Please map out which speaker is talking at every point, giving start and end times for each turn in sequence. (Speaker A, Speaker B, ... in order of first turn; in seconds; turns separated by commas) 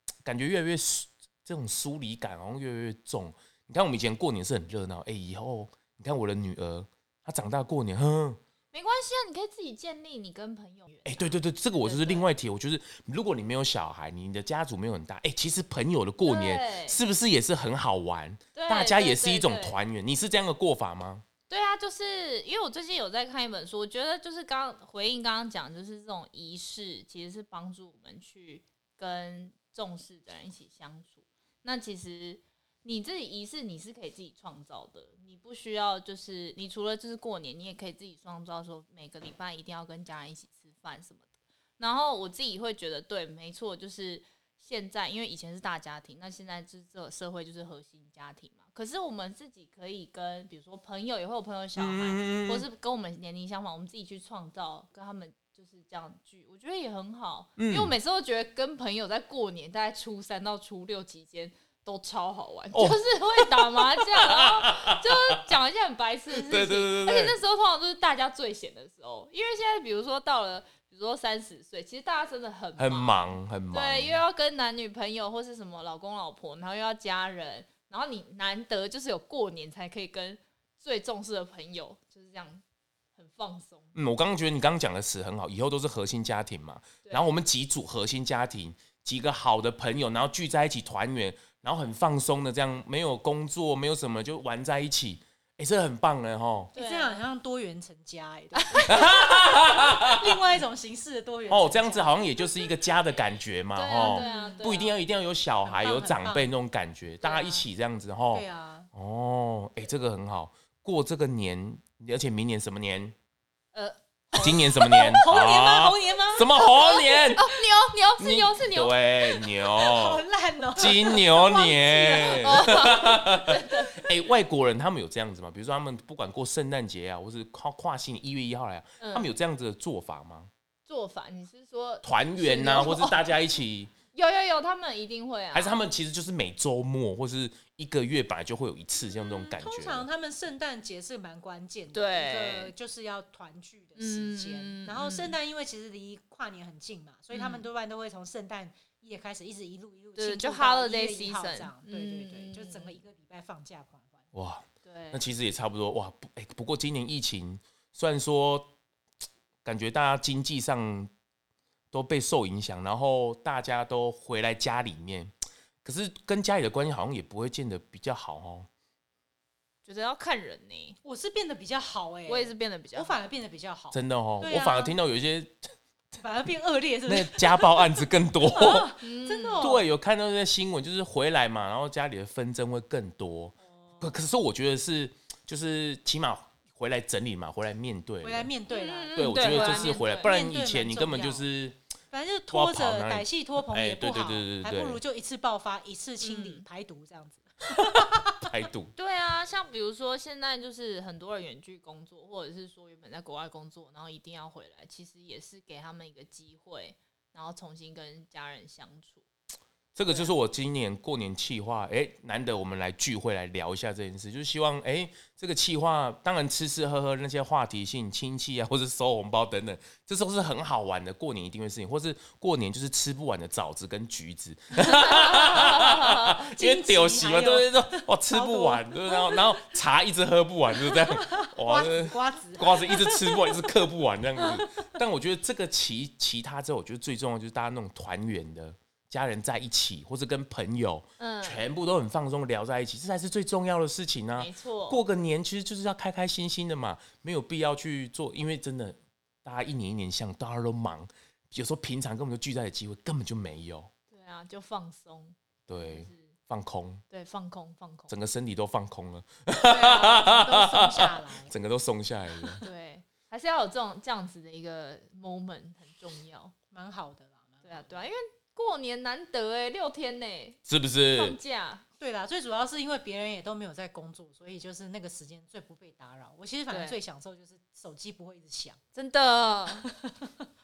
Speaker A: 0.2-8.4, Speaker B: 8.7-12.3, Speaker A: 11.1-21.2, Speaker B: 16.2-17.0, Speaker B: 18.6-19.8, Speaker B: 21.5-41.2, Speaker B: 41.8-82.6, Speaker A: 51.8-52.6, Speaker A: 57.6-58.0, Speaker A: 62.7-65.4, Speaker A: 66.3-67.3, Speaker A: 72.8-74.2, Speaker B: 83.2-83.9, Speaker A: 84.0-96.7, Speaker B: 96.7-97.2, Speaker C: 96.7-102.2, Speaker B: 98.5-99.0, Speaker A: 98.9-100.2, Speaker A: 101.5-113.2, Speaker B: 103.8-104.9, Speaker C: 104.1-104.8, Speaker C: 105.7-106.5, Speaker B: 107.2-107.7, Speaker C: 108.3-108.9, Speaker B: 113.7-115.3, Speaker C: 114.4-116.5, Speaker A: 114.4-117.5, Speaker B: 116.6-119.0, Speaker A: 118.2-120.2, Speaker C: 119.6-123.2, Speaker A: 120.8-130.5, Speaker B: 122.2-124.0, Speaker B: 129.0-129.3, Speaker B: 130.9-133.2, Speaker A: 132.0-133.9, Speaker B: 134.1-135.8, Speaker A: 135.5-140.1, Speaker C: 139.3-154.2, Speaker B: 141.9-142.7, Speaker B: 144.0-145.4, Speaker B: 147.3-147.7, Speaker B: 150.2-153.0, Speaker A: 154.3-158.7, Speaker B: 154.8-155.2, Speaker A: 159.6-161.1, Speaker A: 161.9-165.3, Speaker A: 165.8-168.7, Speaker B: 169.9-171.0, Speaker C: 171.0-174.9, Speaker B: 172.3-173.2, Speaker A: 173.9-175.6, Speaker C: 176.2-179.9, Speaker A: 177.1-178.9, Speaker B: 179.0-179.8, Speaker A: 179.6-188.5, Speaker C: 188.2-191.5, Speaker B: 188.7-190.3, Speaker A: 189.1-191.8, Speaker C: 192.1-198.5, Speaker A: 192.5-195.0, Speaker B: 196.2-196.7, Speaker A: 198.5-198.9, Speaker B: 199.0-209.2, Speaker A: 209.9-253.9, Speaker B: 210.1-210.3, Speaker C: 225.1-225.8, Speaker C: 226.3-229.6, Speaker C: 230.9-233.6, Speaker B: 241.2-241.6, Speaker B: 244.4-245.0, Speaker B: 254.1-256.3, Speaker A: 255.7-257.0, Speaker B: 257.1-258.1, Speaker A: 258.1-262.6, Speaker C: 259.6-261.5, Speaker B: 262.6-266.6, Speaker C: 266.7-268.0, Speaker B: 267.6-271.9, Speaker A: 270.7-271.4, Speaker C: 272.0-278.8, Speaker B: 276.7-277.0, Speaker B: 278.9-279.9, Speaker C: 279.8-280.5